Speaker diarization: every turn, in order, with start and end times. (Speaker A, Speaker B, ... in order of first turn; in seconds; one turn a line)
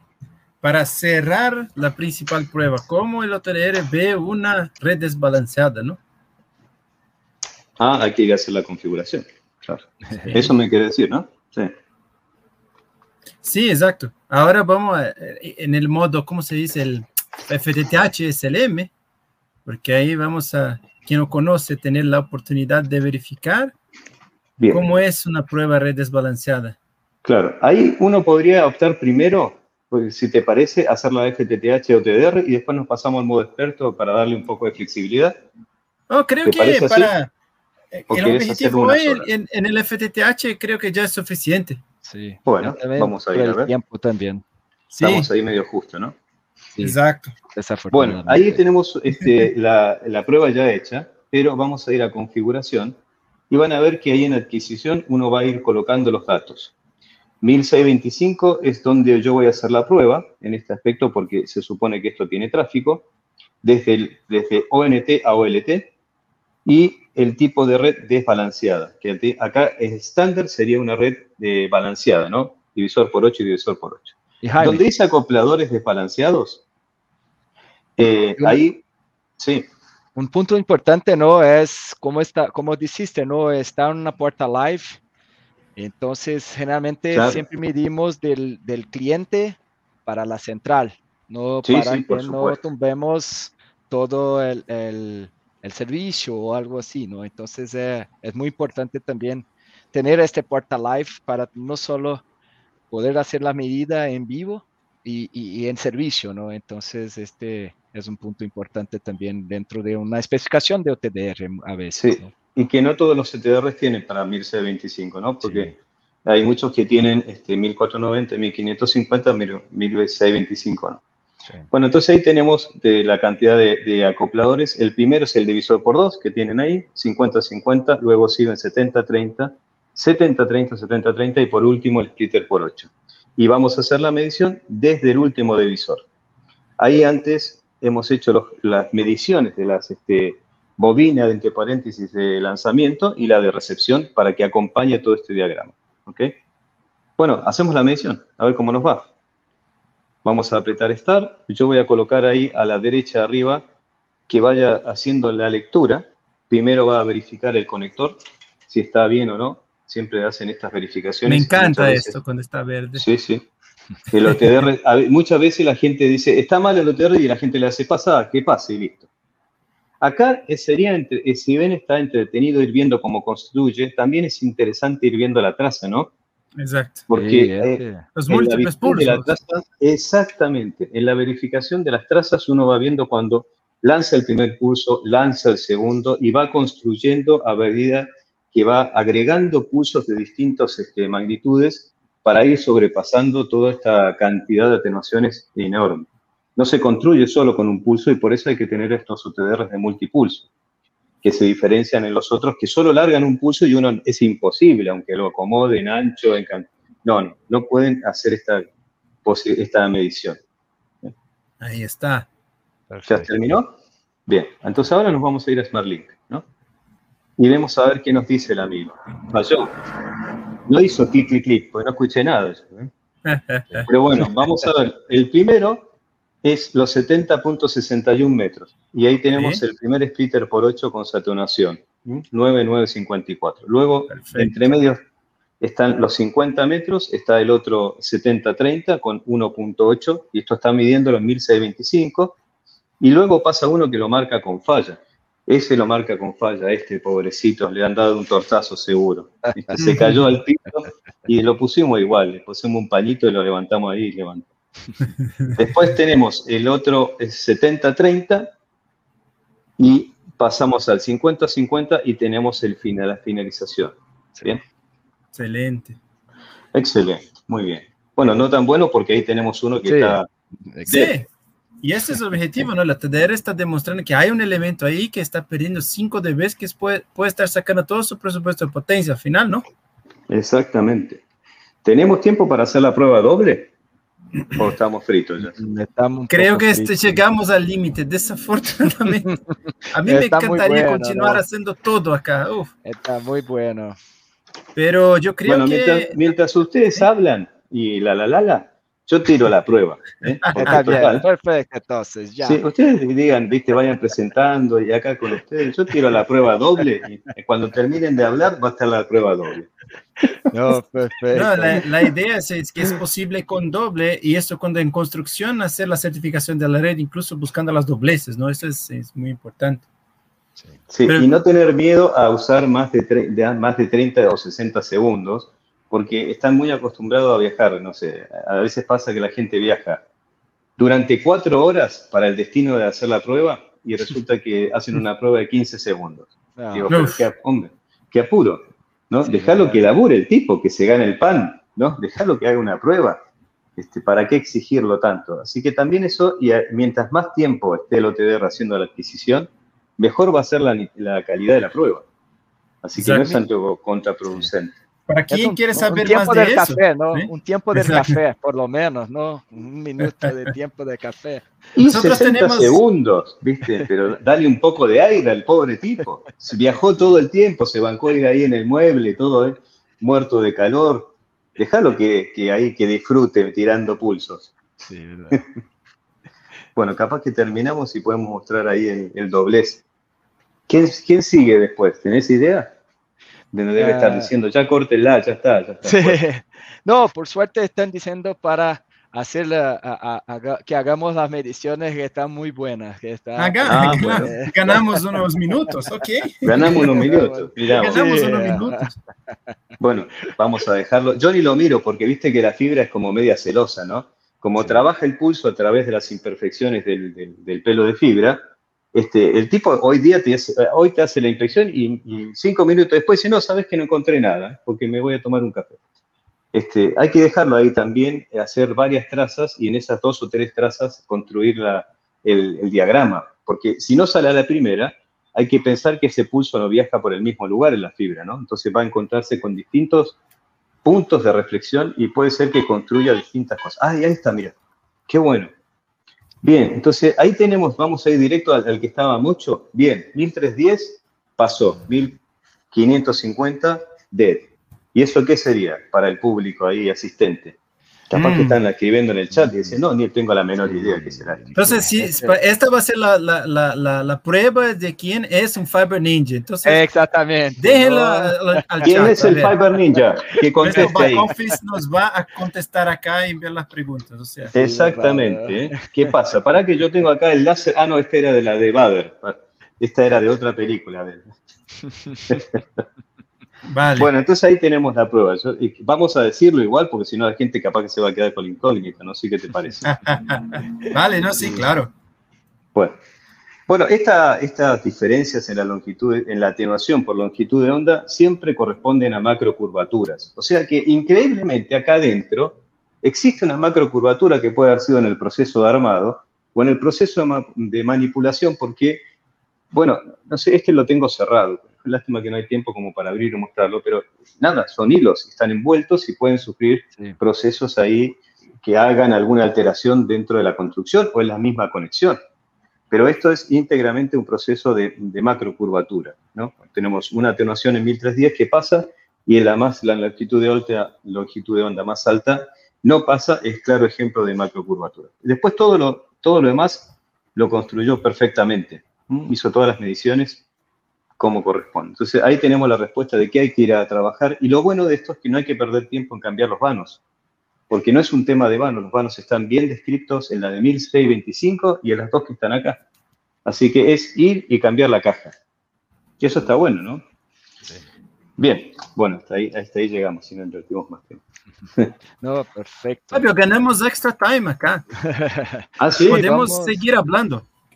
Speaker A: 0.6-6.0
Speaker B: 7.8-11.7
Speaker A: 13.4-18.9
Speaker A: 19.6-23.7
Speaker B: 24.6-24.9
Speaker A: 24.7-26.8
Speaker B: 27.2-35.3
Speaker A: 36.1-37.3
Speaker B: 36.4-37.1
Speaker A: 37.9-41.8
Speaker B: 38.1-39.3
Speaker C: 42.0-44.4
Speaker B: 42.5-43.7
Speaker A: 44.9-45.3
Speaker B: 45.0-46.1
Speaker A: 46.8-47.3
Speaker C: 47.5-48.6
Speaker B: 47.9-53.0
Speaker B: 53.5-56.7
Speaker B: 57.4-63.1
Speaker B: 63.6-65.9
Speaker B: 66.6-76.6
Speaker C: 74.4-74.8
Speaker B: 78.0-78.8
Speaker B: 79.4-79.6
Speaker C: 80.2-85.0
Speaker C: 85.8-102.2
Speaker B: 87.1-87.4
Speaker B: 91.6-92.6
Speaker C: 102.9-112.3
Speaker B: 112.0-115.7
Speaker C: 115.4-115.8
Speaker B: 116.2-121.0
Speaker B: 121.7-136.0
Speaker B: 136.8-146.3
Speaker B: 147.2-149.1
Speaker B: 150.2-153.6
Speaker B: 154.3-158.2
Speaker B: 158.7-162.2
Speaker A: 161.2-163.1
Speaker B: 163.0-163.4
Speaker B: 164.1-169.1
Speaker B: 170.0-176.1
Speaker A: 176.6-177.1
Speaker B: 177.1-200.5
Speaker C: 177.1-178.1
Speaker A: 178.1-179.3
Speaker B: 201.2-208.6
Speaker B: 209.2-210.4
Speaker A: 211.6-212.3
Speaker C: 212.9-213.3
Speaker B: 213.1-213.7
Speaker B: 214.3-216.4
Speaker B: 217.4-219.8
Speaker B: 220.7-222.9
Speaker A: 223.2-223.9
Speaker B: 223.9-225.9
Speaker B: 226.4-235.0
Speaker A: 229.3-229.6
Speaker A: 234.1-234.5
Speaker B: 235.6-242.4
Speaker B: 243.0-254.5
Speaker B: 255.6-258.5
Speaker B: 259.8-264.6
Speaker A: 265.3-266.0
Speaker B: 266.7-270.2
Speaker C: 269.8-271.1
Speaker A: 270.9-271.2
Speaker A: 271.8-279.6
Speaker B: 280.3-281.2
Speaker B: 281.8-283.7
Speaker B: 284.5-285.6
Speaker C: 285.4-286.9
Speaker A: 286.3-289.3
Speaker A: 289.9-292.7
Speaker C: 290.0-291.4
Speaker C: 292.8-293.9
Speaker A: 294.7-296.1
Speaker B: 295.4-301.2
Speaker C: 300.6-302.6
Speaker B: 302.4-309.7
Speaker C: 310.5-311.8
Speaker A: 311.3-319.9
Speaker C: 320.6-320.8
Speaker B: 320.9-330.0
Speaker B: 330.8-343.2
Speaker C: 336.6-336.9
Speaker A: 336.9-337.2
Speaker C: 339.2-339.8
Speaker B: 343.8-352.0
Speaker B: 352.8-354.7
Speaker A: 353.0-353.4
Speaker A: 355.1-358.1
Speaker C: 355.3-361.5
Speaker B: 361.7-374.5
Speaker A: 361.8-362.8
Speaker C: 374.8-375.4
Speaker B: 376.8-379.8
Speaker B: 380.7-382.7
Speaker B: 383.5-386.2
Speaker C: 383.8-384.3
Speaker C: 385.8-395.0
Speaker A: 393.4-396.9
Speaker B: 393.6-394.8
Speaker B: 396.4-398.1
Speaker C: 396.5-399.3
Speaker A: 397.7-398.9
Speaker B: 399.8-408.4
Speaker C: 404.6-404.8
Speaker B: 408.9-415.8
Speaker B: 416.5-430.2
Speaker B: 430.8-434.5
Speaker B: 435.1-435.5
Speaker B: 436.4-442.2
Speaker B: 442.7-447.6
Speaker B: 448.1-451.5
Speaker A: 448.1-448.6
Speaker C: 449.3-449.7
Speaker C: 450.6-452.4
Speaker A: 451.5-456.9
Speaker C: 456.6-459.5
Speaker A: 457.6-459.6
Speaker B: 458.8-461.3
Speaker C: 460.6-461.0
Speaker A: 460.6-464.5
Speaker C: 464.4-466.1
Speaker B: 464.5-471.3
Speaker C: 471.9-472.4
Speaker B: 472.3-472.8
Speaker A: 473.7-474.1
Speaker B: 474.0-479.9
Speaker A: 479.8-481.9
Speaker B: 483.7-499.0
Speaker B: 499.7-512.2
Speaker B: 512.9-530.4
Speaker B: 531.2-537.0
Speaker B: 537.7-542.8
Speaker B: 543.4-545.3
Speaker B: 546.2-547.0
Speaker B: 548.4-551.2
Speaker C: 552.2-553.2
Speaker A: 553.1-554.8
Speaker C: 555.0-556.8
Speaker B: 555.8-556.3
Speaker A: 556.0-557.4